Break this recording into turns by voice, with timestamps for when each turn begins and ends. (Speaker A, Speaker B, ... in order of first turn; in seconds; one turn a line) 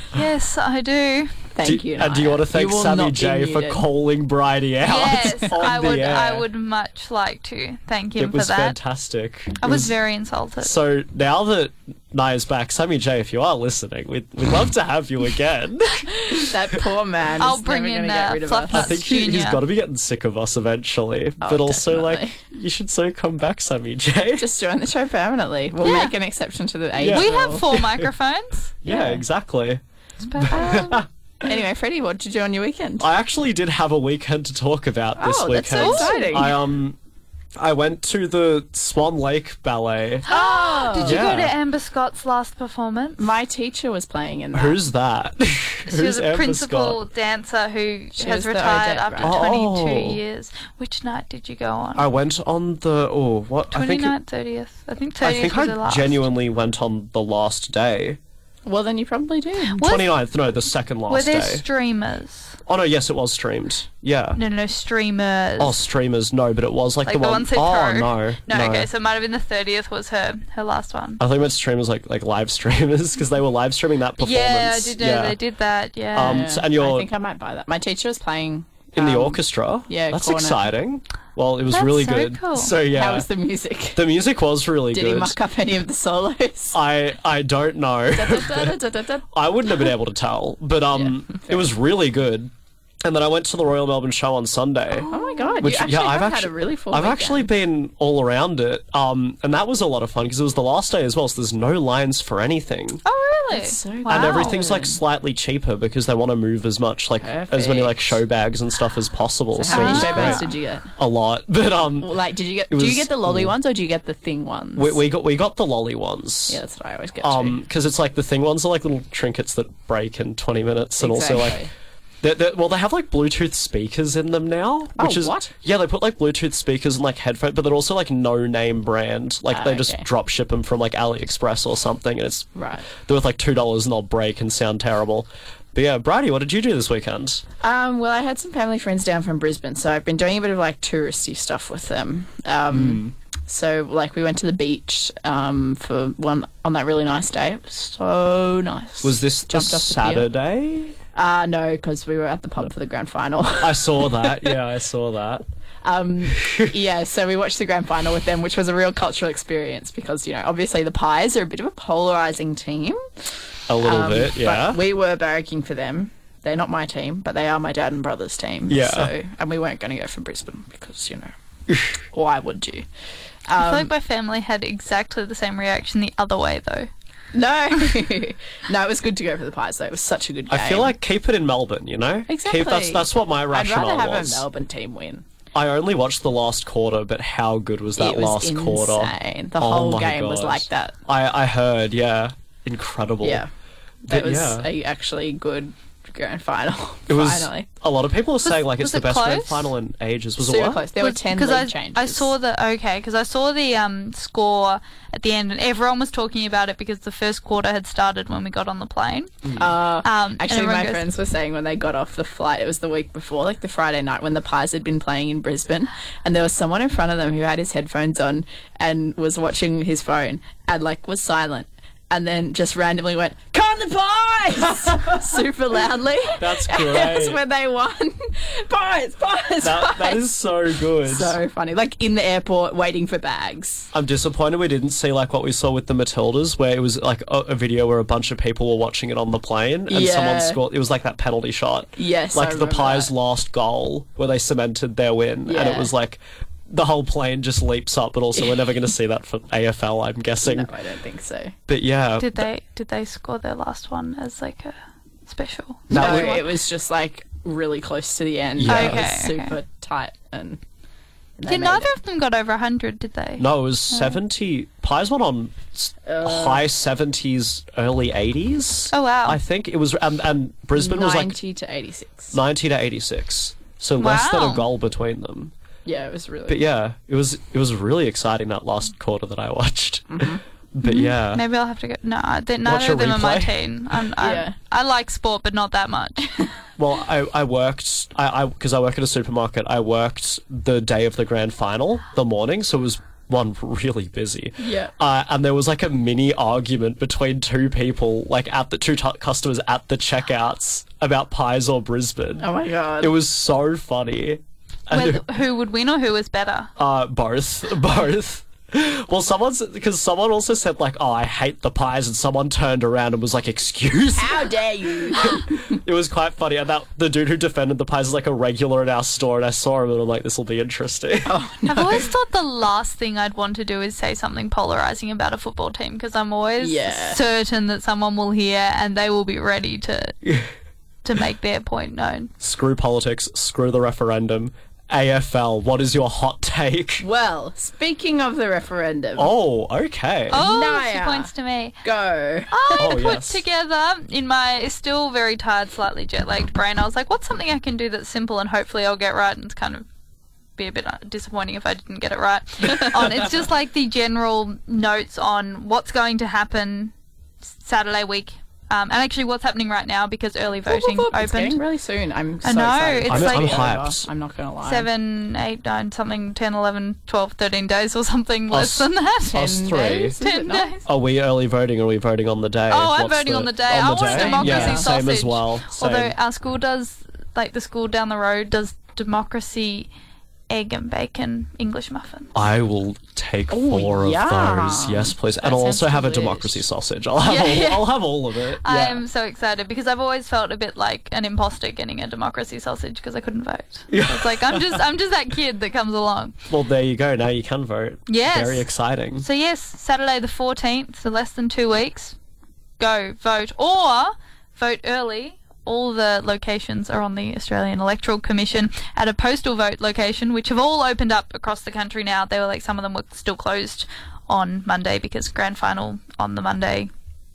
Speaker A: 0.1-1.3
Speaker B: 1.5-3.8
Speaker C: 1.6-6.5
Speaker A: 4.8-8.8
Speaker C: 8.2-9.9
Speaker A: 9.6-10.7
Speaker C: 10.6-16.5
Speaker B: 16.4-18.9
Speaker A: 17.4-19.6
Speaker C: 18.7-24.5
Speaker B: 21.4-22.4
Speaker B: 24.4-27.6
Speaker A: 25.8-26.1
Speaker C: 26.9-28.1
Speaker A: 27.0-28.7
Speaker C: 28.8-29.8
Speaker B: 28.8-29.2
Speaker A: 30.2-30.8
Speaker C: 30.4-31.1
Speaker B: 30.5-33.1
Speaker C: 33.0-37.0
Speaker B: 35.2-36.5
Speaker A: 35.7-36.6
Speaker C: 37.5-40.3
Speaker A: 40.2-43.3
Speaker B: 40.3-41.2
Speaker C: 41.0-41.5
Speaker B: 43.2-44.8
Speaker C: 44.5-47.0
Speaker A: 45.9-52.1
Speaker B: 48.1-49.4
Speaker C: 49.2-50.2
Speaker C: 52.0-54.1
Speaker A: 53.7-56.2
Speaker C: 55.2-58.2
Speaker B: 58.6-59.9
Speaker C: 59.8-61.6
Speaker A: 59.8-60.1
Speaker A: 61.1-62.6
Speaker C: 62.6-64.4
Speaker A: 64.3-65.8
Speaker C: 65.6-68.9
Speaker A: 67.0-71.2
Speaker C: 71.2-75.4
Speaker A: 74.2-76.4
Speaker C: 76.1-77.1
Speaker B: 76.2-80.6
Speaker C: 78.9-83.3
Speaker A: 81.7-82.7
Speaker B: 82.8-84.0
Speaker C: 83.9-85.4
Speaker B: 84.9-86.8
Speaker C: 86.7-88.8
Speaker B: 88.1-89.3
Speaker C: 89.3-92.5
Speaker B: 90.9-91.7
Speaker C: 93.0-103.0
Speaker A: 95.0-95.7
Speaker B: 95.1-97.5
Speaker A: 103.0-104.6
Speaker B: 103.5-105.0
Speaker C: 104.1-112.2
Speaker B: 107.2-108.2
Speaker B: 109.5-110.9
Speaker A: 109.7-110.5
Speaker B: 112.0-115.0
Speaker C: 112.7-113.5
Speaker C: 114.7-116.6
Speaker B: 116.5-117.6
Speaker C: 117.2-121.6
Speaker B: 121.0-121.7
Speaker C: 122.2-137.4
Speaker B: 125.0-125.5
Speaker B: 129.5-130.1
Speaker B: 132.6-132.9
Speaker B: 137.6-150.2
Speaker C: 142.7-143.1
Speaker C: 149.0-150.9
Speaker B: 151.1-154.5
Speaker C: 153.6-155.4
Speaker B: 155.8-163.2
Speaker C: 156.3-156.7
Speaker C: 163.7-164.8
Speaker B: 163.8-171.3
Speaker C: 168.7-169.1
Speaker C: 171.7-171.9
Speaker B: 172.1-172.8
Speaker B: 173.5-173.9
Speaker A: 173.6-176.9
Speaker B: 177.3-180.9
Speaker C: 180.5-184.4
Speaker B: 182.3-185.2
Speaker C: 185.5-193.4
Speaker B: 188.0-190.9
Speaker B: 193.2-193.5
Speaker C: 194.1-194.7
Speaker B: 194.1-197.7
Speaker C: 197.1-200.8
Speaker A: 198.4-199.7
Speaker B: 200.4-202.3
Speaker A: 201.0-209.3
Speaker B: 209.6-230.2
Speaker A: 210.0-211.0
Speaker C: 226.3-227.4
Speaker C: 229.6-231.4
Speaker B: 231.0-233.9
Speaker C: 233.9-250.7
Speaker B: 239.9-240.6
Speaker B: 242.0-243.1
Speaker B: 245.4-245.9
Speaker B: 250.4-251.5
Speaker C: 251.7-252.5
Speaker A: 252.2-254.8
Speaker A: 255.3-256.4
Speaker C: 255.9-256.5
Speaker B: 255.9-260.6
Speaker C: 258.6-259.2
Speaker A: 258.6-259.5
Speaker B: 261.4-261.9
Speaker A: 261.5-264.2
Speaker C: 263.4-271.4
Speaker B: 266.1-266.6
Speaker A: 268.9-269.4
Speaker B: 270.7-272.3
Speaker C: 272.3-275.5
Speaker A: 274.0-274.6
Speaker B: 275.8-276.6
Speaker C: 276.5-281.4
Speaker B: 280.1-280.4
Speaker A: 280.8-286.3
Speaker C: 282.6-284.0
Speaker B: 284.2-284.5
Speaker C: 286.8-305.2
Speaker B: 294.6-294.9
Speaker B: 302.4-303.1
Speaker A: 304.9-306.7
Speaker C: 306.8-314.5
Speaker B: 314.1-315.6
Speaker C: 315.1-321.3
Speaker B: 321.2-322.1
Speaker A: 321.7-330.2
Speaker B: 326.6-327.2
Speaker A: 331.0-332.3
Speaker C: 332.4-337.0
Speaker B: 337.0-339.3
Speaker C: 339.1-340.4
Speaker A: 340.3-341.8
Speaker B: 340.3-341.3
Speaker B: 341.8-342.9
Speaker A: 342.5-349.8
Speaker C: 342.8-343.4
Speaker A: 350.6-356.9
Speaker A: 357.6-361.6
Speaker B: 360.6-364.9
Speaker A: 362.4-363.7
Speaker C: 363.1-364.1
Speaker A: 364.6-369.4
Speaker C: 368.5-370.2
Speaker B: 369.3-370.7
Speaker A: 370.2-370.8
Speaker C: 370.8-376.1
Speaker A: 372.7-379.9
Speaker B: 374.0-374.9
Speaker A: 380.5-382.3
Speaker C: 382.3-389.0
Speaker B: 383.5-386.6
Speaker A: 387.2-388.0
Speaker A: 388.6-396.4
Speaker C: 393.9-394.8
Speaker C: 396.5-399.2
Speaker A: 398.1-402.1
Speaker A: 402.8-416.9